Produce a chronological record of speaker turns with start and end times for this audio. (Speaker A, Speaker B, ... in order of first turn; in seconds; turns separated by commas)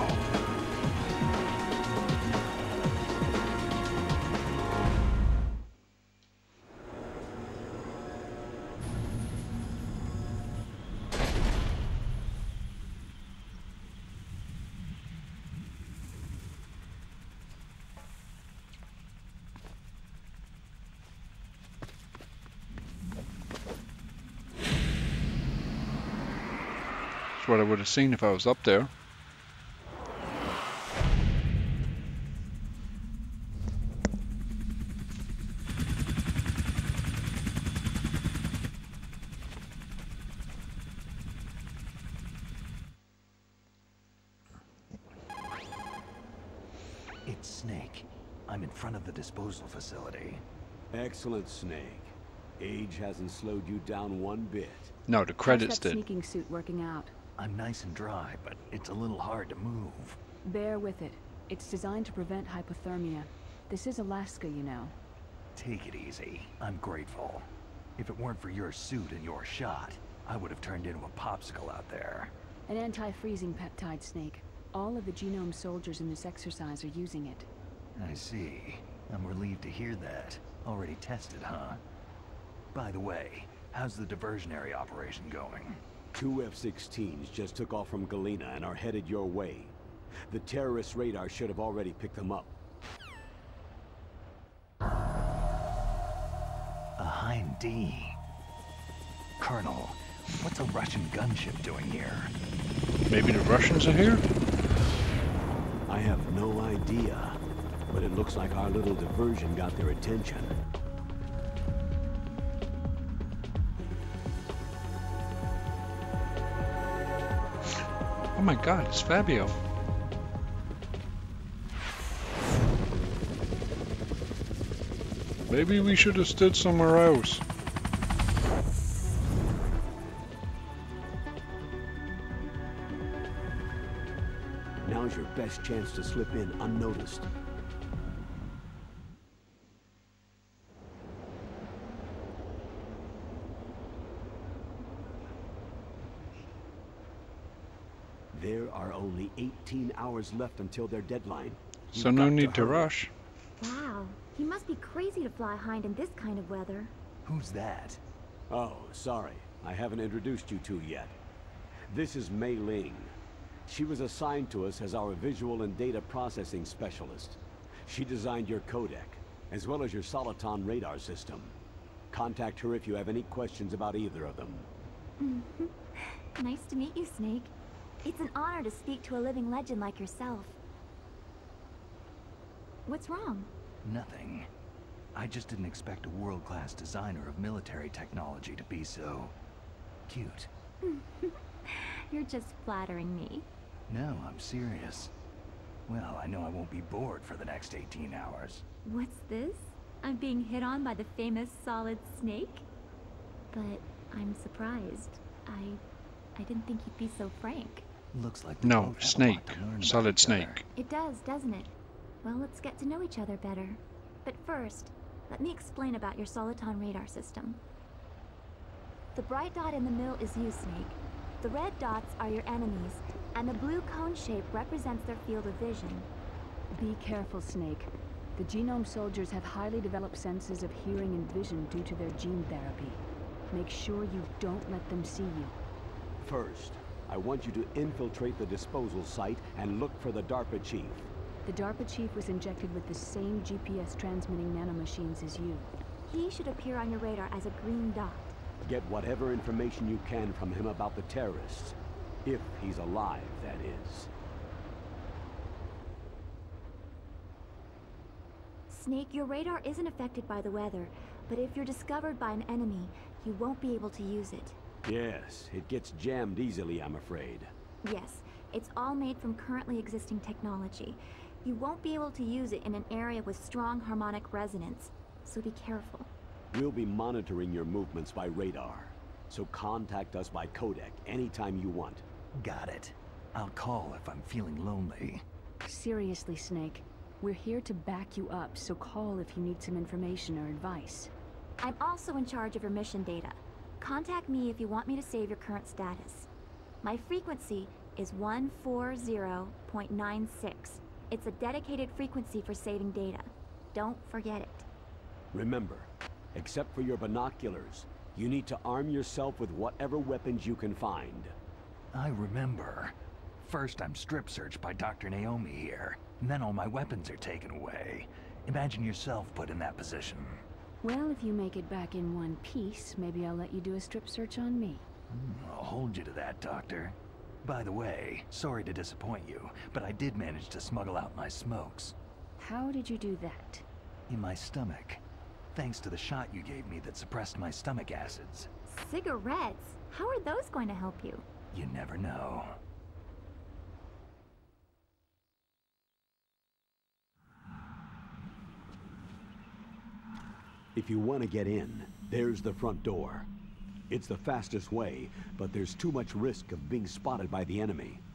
Speaker A: 27.4-28.9, Speaker B: 47.3-50.4, Speaker C: 50.9-54.9, Speaker A: 55.1-56.0, Speaker D: 55.5-57.1, Speaker B: 57.4-60.2, Speaker D: 60.5-65.0, Speaker B: 65.5-72.3, Speaker D: 72.7-77.5, Speaker B: 78.0-81.8, Speaker B: 82.7-85.8, Speaker C: 86.2-89.8, Speaker C: 90.3-92.5, Speaker B: 97.0-98.2, Speaker B: 99.4-102.3, Speaker A: 103.1-104.2, Speaker C: 105.9-110.6, Speaker A: 118.3-119.6, Speaker A: 125.5-127.4, Speaker C: 134.8-137.3, Speaker C: 148.3-152.9, Speaker A: 151.9-153.1, Speaker E: 153.6-156.9, Speaker B: 157.2-158.0, Speaker C: 158.5-161.2, Speaker C: 161.9-163.1, Speaker C: 163.7-171.5, Speaker C: 172.1-174.7, Speaker E: 175.2-180.6, Speaker E: 182.9-183.5, Speaker B: 183.8-184.5, Speaker B: 185.2-189.3, Speaker B: 190.1-190.5, Speaker E: 190.8-193.5, Speaker B: 193.9-195.1, Speaker B: 195.9-198.6, Speaker E: 198.8-202.7, Speaker E: 203.5-205.8, Speaker E: 206.4-207.9, Speaker B: 208.1-210.6, Speaker A: 208.6-210.6, Speaker E: 210.8-217.6, Speaker E: 219.1-226.1, Speaker D: 226.7-235.6, Speaker C: 236.2-241.1, Speaker D: 241.4-245.7, Speaker E: 246.1-248.3, Speaker C: 248.6-254.1, Speaker E: 258.7-264.6, Speaker C: 264.9-267.5, Speaker E: 267.8-276.1, Speaker C: 276.5-282.0, Speaker B: 282.3-285.2, Speaker D: 285.6-291.1, Speaker E: 291.6-296.3, Speaker E: 296.8-304.7, Speaker C: 305.3-311.3, Speaker B: 311.9-320.4, Speaker D: 320.8-324.9, Speaker B: 325.1-332.0, Speaker D: 332.4-333.6, Speaker B: 334.1-335.0, Speaker B: 335.5-338.5, Speaker E: 338.7-341.2, Speaker B: 341.5-342.6, Speaker C: 350.7-353.3, Speaker C: 353.9-358.0